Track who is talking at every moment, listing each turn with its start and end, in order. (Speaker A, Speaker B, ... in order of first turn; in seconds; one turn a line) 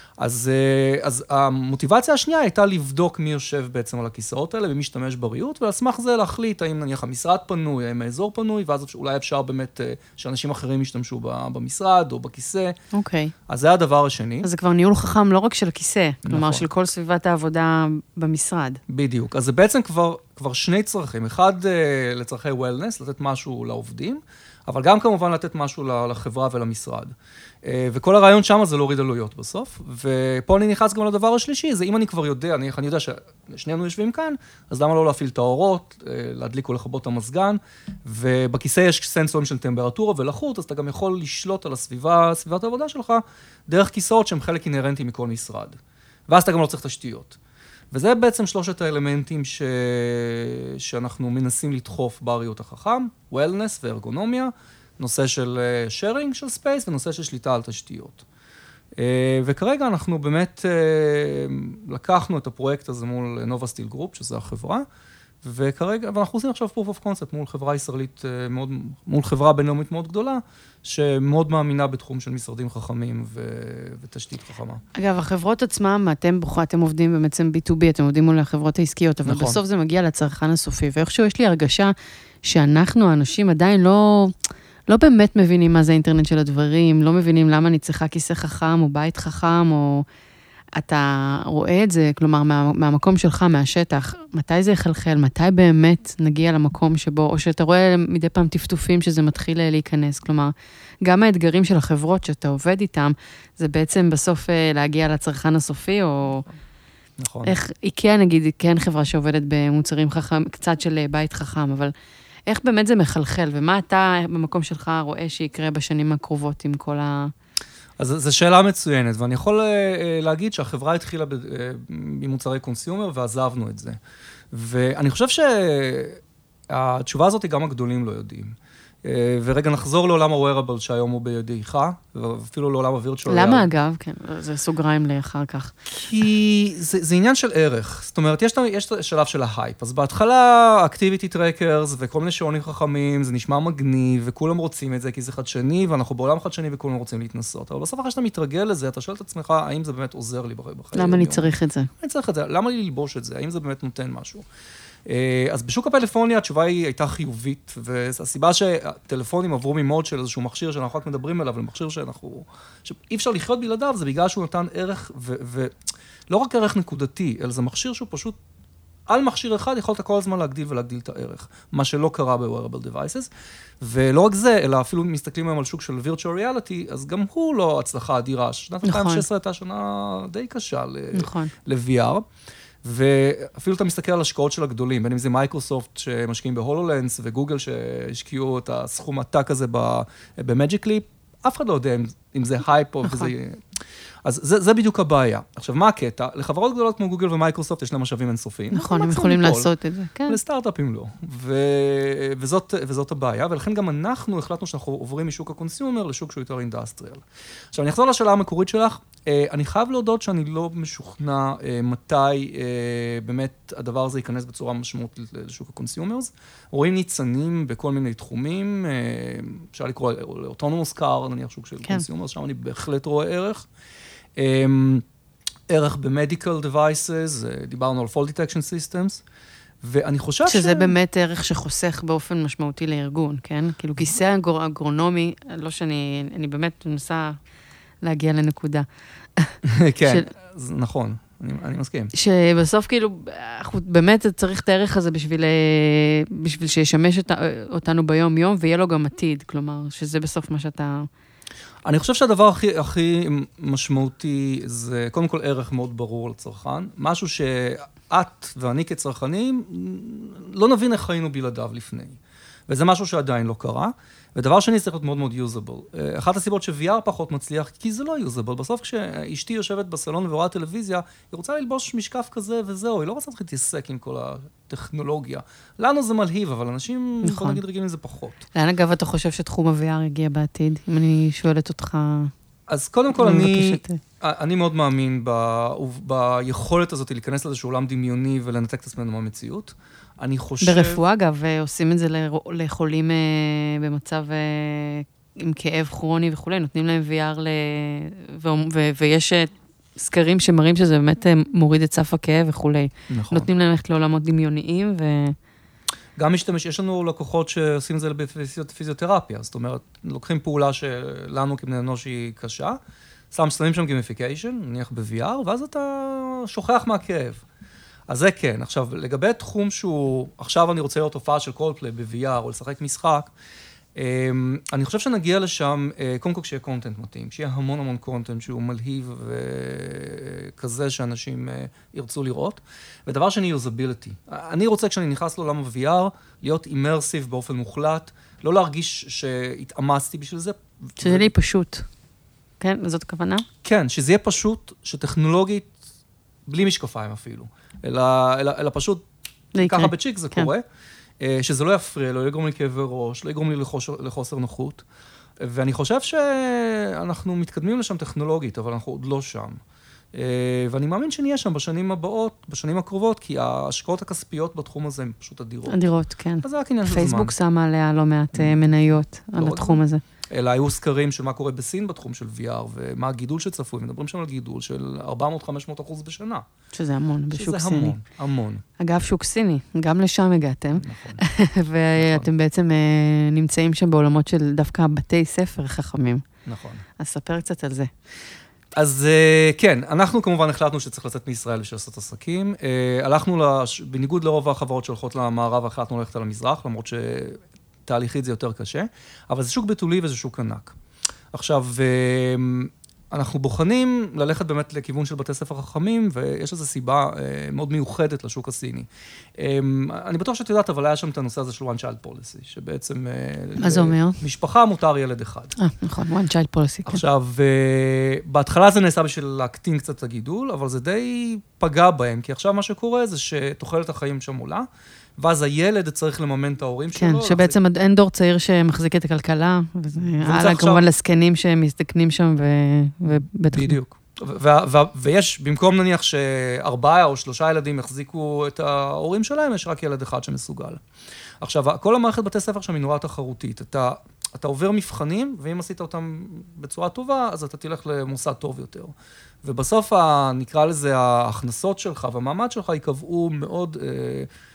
Speaker A: 0.2-12.8
Speaker B: 12.9-13.3
Speaker A: 13.5-14.5
Speaker B: 14.4-18.8
Speaker A: 16.2-16.7
Speaker A: 18.9-47.4
Speaker A: 47.9-58.2
Speaker A: 59.0-64.9
Speaker A: 65.4-74.8
Speaker B: 75.0-84.3
Speaker A: 79.2-79.6
Speaker B: 84.9-90.0
Speaker B: 90.8-106.5
Speaker A: 107.2-107.6
Speaker B: 107.4-111.9
Speaker B: 112.5-117.3
Speaker A: 118.0-124.0
Speaker A: 124.5-133.7
Speaker B: 133.3-135.9
Speaker A: 135.9-154.4
Speaker B: 150.9-151.9
Speaker A: 155.1-165.7
Speaker A: 166.3-168.4
Speaker A: 169.1-173.3
Speaker A: 173.8-182.2
Speaker B: 178.8-179.3
Speaker B: 181.1-181.5
Speaker A: 182.8-193.6
Speaker B: 193.0-193.3
Speaker A: 194.2-199.7
Speaker B: 198.7-200.4
Speaker A: 200.3-223.7
Speaker A: 224.4-225.1
Speaker A: 225.7-229.2
Speaker A: 229.8-230.9
Speaker B: 230.5-237.4
Speaker B: 238.0-240.3
Speaker A: 239.6-242.1
Speaker B: 242.1-251.1
Speaker A: 251.8-278.4
Speaker B: 277.2-277.6
Speaker B: 278.6-282.3
Speaker A: 282.7-291.0
Speaker B: 283.1-284.0
Speaker B: 290.6-305.4
Speaker A: 303.1-303.5
Speaker A: 306.2-312.8
Speaker A: 313.3-317.4
Speaker A: 318.1-323.3
Speaker A: 323.9-341.3
Speaker B: 341.0-341.9
Speaker B: 342.6-343.5
Speaker A: 343.6-345.7
Speaker A: 346.5-349.1
Speaker B: 349.6-350.5
Speaker A: 349.6-350.6
Speaker A: 351.2-354.8
Speaker A: 355.4-359.6
Speaker A: 360.1-365.8
Speaker B: 365.7-370.0
Speaker A: 366.4-367.3
Speaker A: 368.3-368.7
Speaker A: 369.4-376.5
Speaker B: 376.7-378.0
Speaker A: 377.3-378.6
Speaker B: 378.8-386.3
Speaker A: 380.8-381.2
Speaker A: 382.0-382.3
Speaker A: 386.5-386.9
Speaker B: 387.0-387.9
Speaker A: 388.8-400.8
Speaker A: 401.3-415.6
Speaker B: 413.6-414.2
Speaker B: 415.6-417.0
Speaker A: 416.9-427.6
Speaker B: 426.9-433.8
Speaker A: 430.2-430.9
Speaker A: 433.5-440.8
Speaker A: 441.4-454.3